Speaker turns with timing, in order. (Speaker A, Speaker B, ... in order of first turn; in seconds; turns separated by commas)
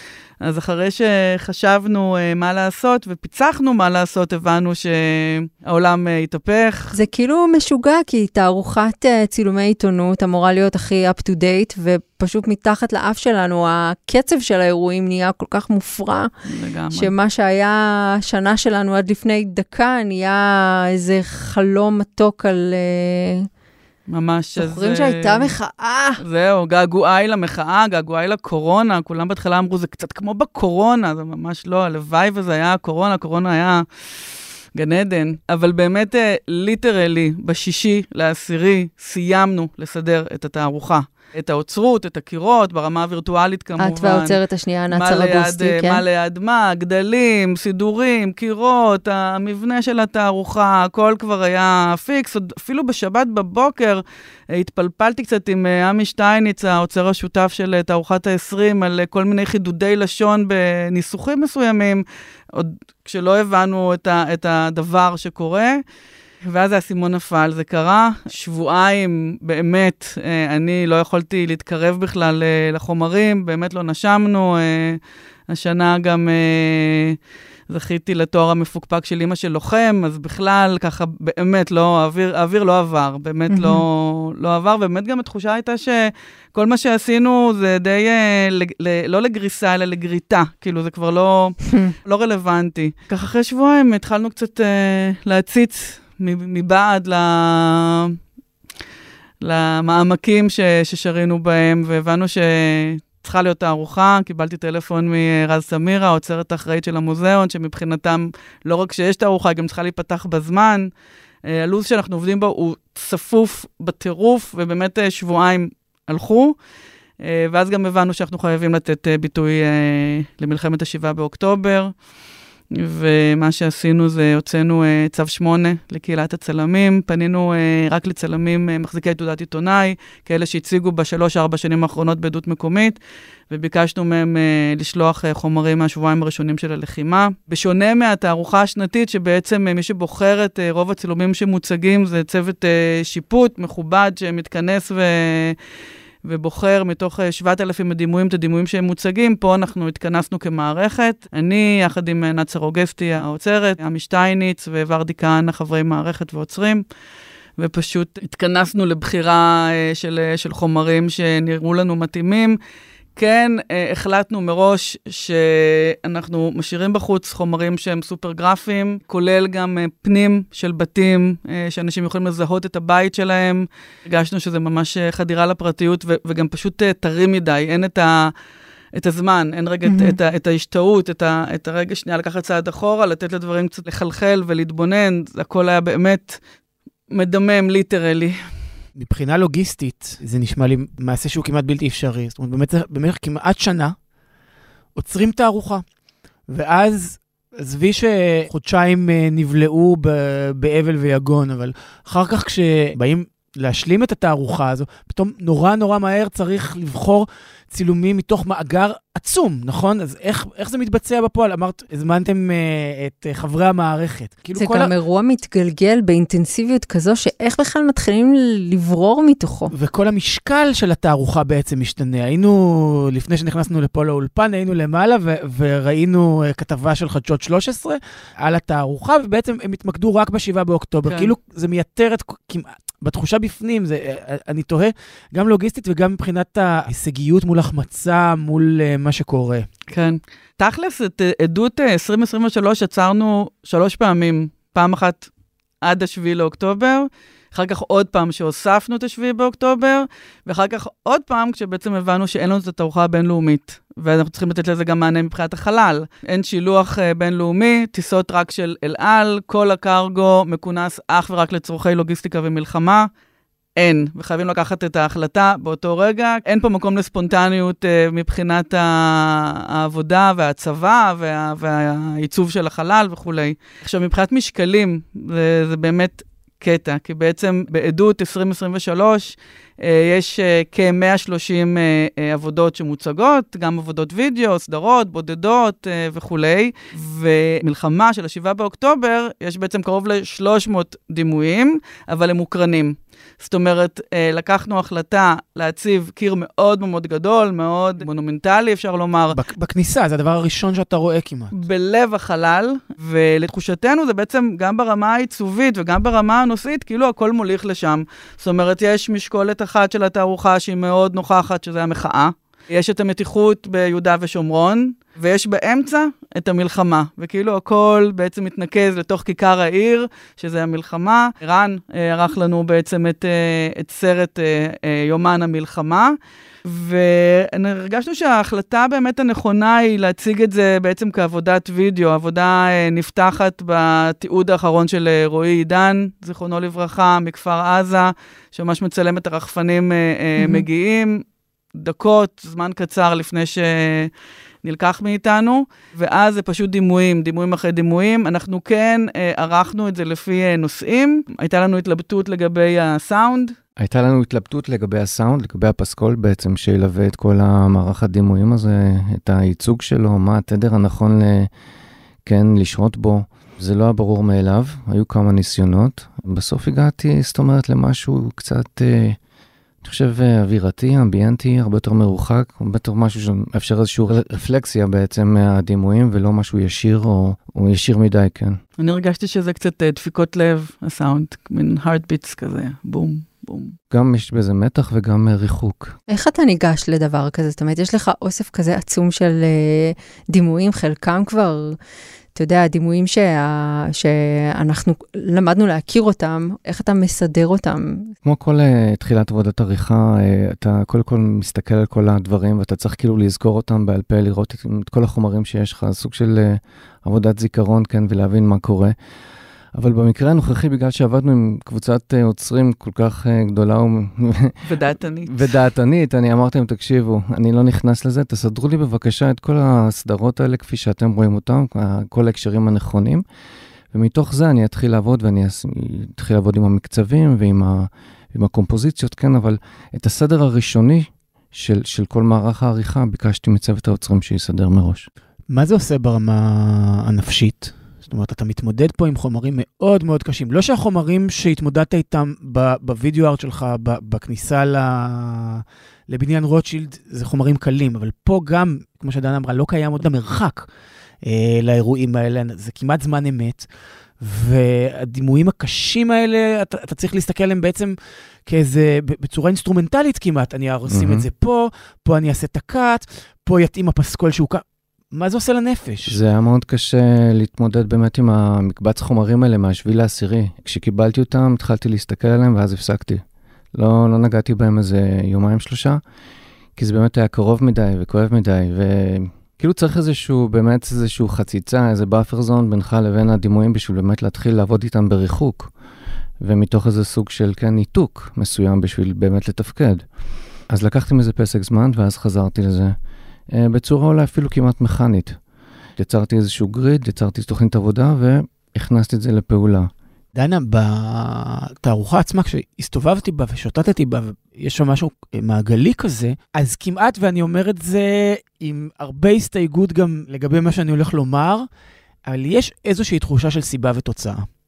Speaker A: 0.4-6.9, Speaker B: 6.9-16.3, Speaker A: 16.5-17.1, Speaker B: 16.9-23.5, Speaker A: 24.1-25.5, Speaker B: 24.6-26.2, Speaker A: 26.2-33.9, Speaker A: 34.7-44.4, Speaker B: 43.8-46.0, Speaker A: 44.9-65.8, Speaker A: 66.4-77.2, Speaker A: 77.7-98.2, Speaker B: 83.5-83.8, Speaker A: 99.4-110.9, Speaker A: 111.5-116.6, Speaker A: 117.2-121.9, Speaker A: 122.7-133.0, Speaker A: 133.5-145.6, Speaker A: 146.2-156.8, Speaker A: 157.6-162.6, Speaker A: 163.2-178.3, Speaker A: 178.9-186.4, Speaker B: 179.9-180.2, Speaker A: 187.1-188.4, Speaker C: 189.0-194.0, Speaker C: 195.0-195.8, Speaker C: 196.5-214.9, Speaker B: 214.6-219.7, Speaker C: 219.7-239.7, Speaker A: 231.1-231.3, Speaker A: 239.9-245.3, Speaker A: 245.8-263.1, Speaker A: 263.8-299.4, Speaker C: 299.3-301.5, Speaker A: 301.5-341.2, Speaker B: 340.4-340.6, Speaker A: 341.8-344.1, Speaker A: 344.6-353.5, Speaker D: 353.8-361.5, Speaker D: 362.3-369.2, Speaker D: 369.8-378.6, Speaker A: 378.8-383.8, Speaker D: 383.9-385.9, Speaker B: 386.1-391.8, Speaker B: 392.4-398.1, Speaker D: 398.2-408.9, Speaker D: 409.8-423.2, Speaker A: 414.6-415.4, Speaker D: 423.9-435.1, Speaker C: 435.5-450.7, Speaker C: 451.2-453.7, Speaker C: 454.2-466.2, Speaker D: 460.9-461.3, Speaker D: 466.1-473.2, Speaker D: 473.7-476.0, Speaker D: 476.8-485.7, Speaker D: 486.4-490.1, Speaker D: 490.7-492.9, Speaker D: 493.5-495.4, Speaker D: 496.0-499.9, Speaker C: 500.3-511.7, Speaker C: 512.3-514.5